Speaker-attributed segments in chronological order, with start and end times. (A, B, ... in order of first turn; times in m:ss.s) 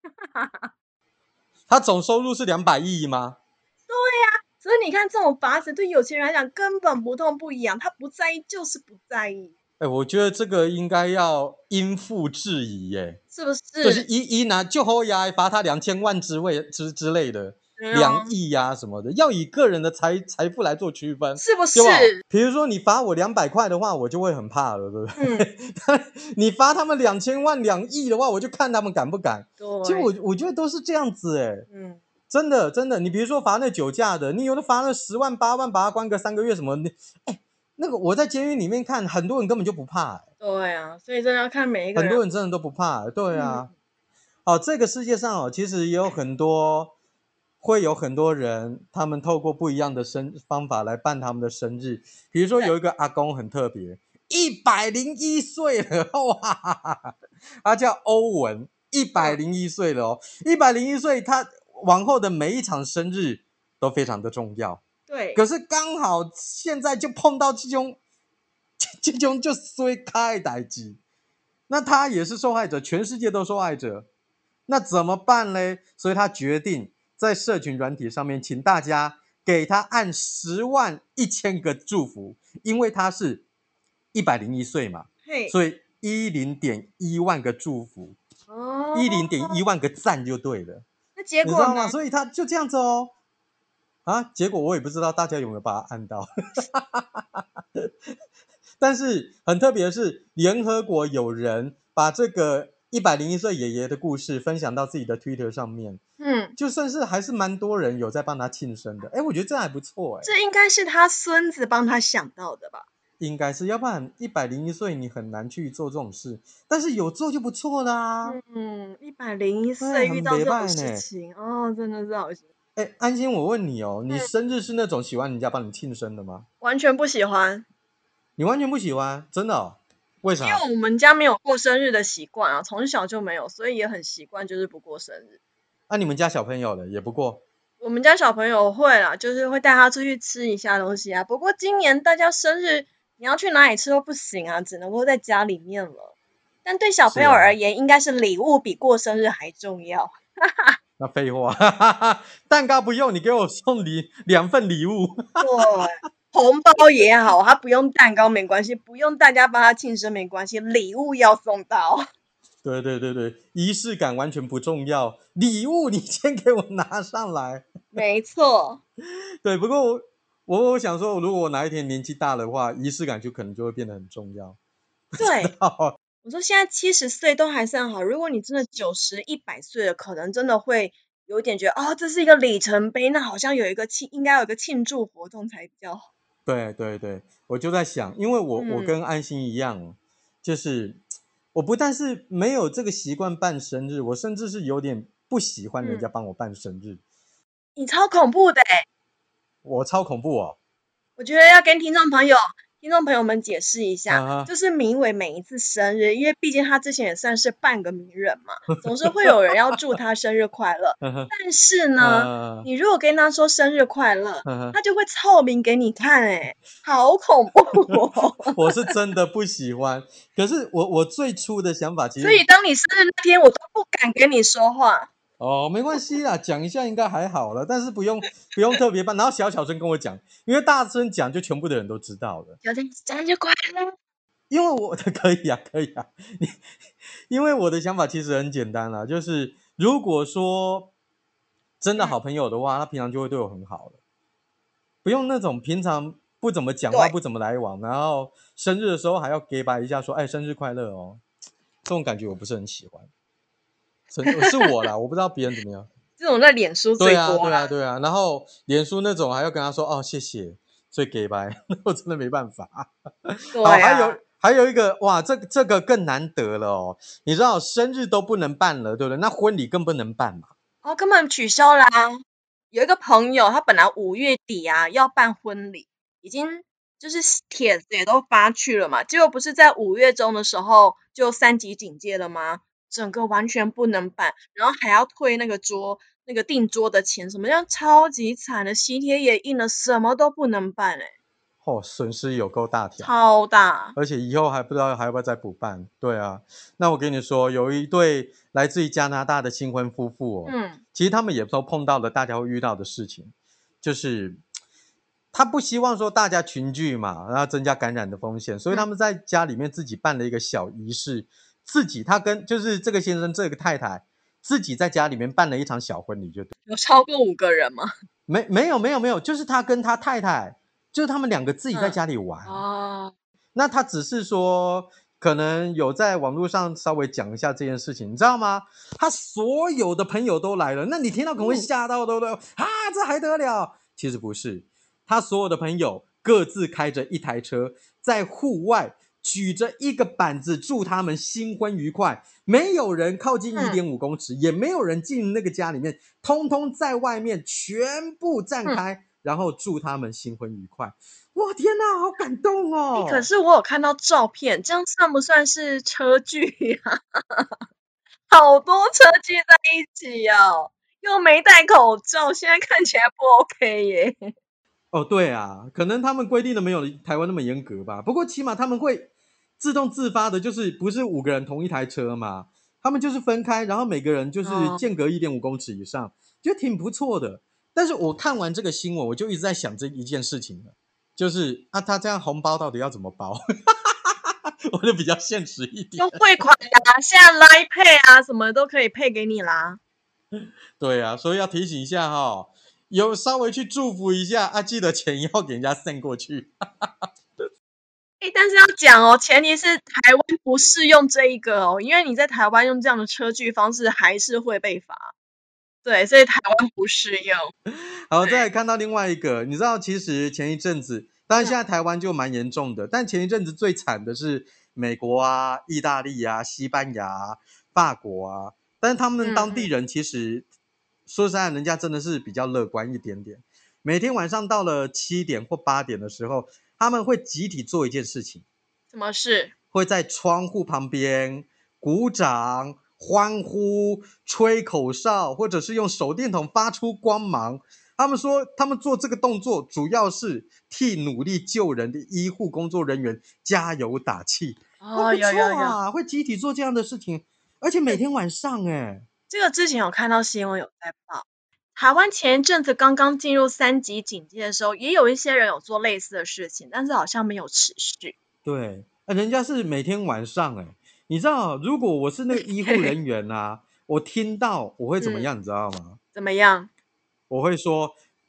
0:00.3-0:00.7 A
0:01.7-0:03.4 B
0:03.9-0:09.5 A
0:09.8-0:13.2 B
0:13.3-0:14.1 A
0:13.8-0:31.7 B
0:17.8-0:18.3 A
0:21.4-0:22.2 A
0:25.2-0:25.5 A
0:29.6-0:30.1 A
0:31.7-0:32.0 A
0:32.3-0:40.2 B
0:40.4-0:42.2 A
0:42.0-0:43.7 B
0:43.3-0:43.7 A
0:44.5-0:46.9 B
0:47.6-0:57.1 B
0:57.6-1:04.8 B
1:05.1-1:05.4 A
1:05.3-1:08.0 B
1:08.8-1:11.0 B
1:11.7-1:14.1 B
1:14.7-1:23.5 B
1:24.1-1:28.2 B
1:25.2-1:25.6 A
1:28.5-1:29.6 A
1:29.0-1:30.9 B
1:31.2-1:32.0 A
1:31.4-1:33.1 B
1:34.1-1:37.8 B
1:38.8-1:46.0 B
1:46.2-1:46.5 A
1:46.6-1:50.3 B
1:50.2-1:52.9 A
1:53.2-1:58.4 B
1:58.2-2:02.4 A
1:59.8-2:01.0 B
2:02.8-2:06.5 B
2:06.6-2:07.7 A
2:08.4-2:10.6 B
2:10.4-2:15.4 A
2:15.9-2:17.4 B
2:17.8-2:26.1 A
2:26.6-2:30.8 A
2:27.1-2:27.6 B
2:31.0-2:35.8 B
2:35.4-2:42.0 A
2:42.6-2:47.7 B
2:47.9-2:48.8 A
2:49.4-2:54.6 B
2:55.1-2:56.0 B
2:55.2-2:55.5 A
2:56.2-3:06.1 A
3:06.5-3:11.0 B
3:08.5-3:09.0 A
3:11.5-3:17.0 B
3:15.8-3:16.1 A
3:17.8-3:18.8 A
3:19.6-3:20.6 B
3:21.2-3:38.5 A
3:24.1-3:24.5 B
3:31.0-3:31.3 B
3:32.0-3:32.7 B
3:34.4-3:34.8 B
3:38.4-3:42.4 B
3:42.2-3:45.1 A
3:45.4-3:52.6 B
3:52.6-3:54.0 A
3:54.5-3:56.6 B
3:57.3-4:00.9 B
4:01.8-4:04.0 B
4:05.0-4:11.2 B
4:11.9-4:13.1 B
4:14.1-4:15.9 B
4:14.2-4:14.7 A
4:16.2-4:17.7 A
4:17.0-4:30.5 B
4:23.5-4:24.2 A
4:30.8-4:32.2 A
4:32.7-4:51.1 A
4:51.6-4:53.1 B
4:53.0-4:54.0 A
4:54.0-5:04.4 B
5:00.5-5:00.8 A
5:05.3-5:16.5 B
5:16.7-5:17.9 A
5:18.3-5:22.6 B
5:21.7-5:23.1 A
5:23.5-5:53.3 B
5:31.4-5:31.7 A
5:53.0-5:57.6 A
5:58.3-6:04.3 A
6:04.9-6:26.2 B
6:14.4-6:14.8 A
6:26.0-6:29.8 A
6:30.8-6:36.9 B
6:38.2-6:45.1 A
6:45.8-6:47.5 A
6:48.1-7:00.4 B
6:48.2-6:48.4 A
6:59.2-6:59.7 A
7:01.1-7:08.4 B
7:08.9-7:09.5 A
7:09.7-7:29.0 B
7:24.8-7:25.8 A
7:29.3-7:38.2 A
7:38.4-7:46.0 B
7:42.4-7:42.9 A
7:45.0-7:45.3 A
7:46.1-7:46.7 A
7:47.3-7:48.0 B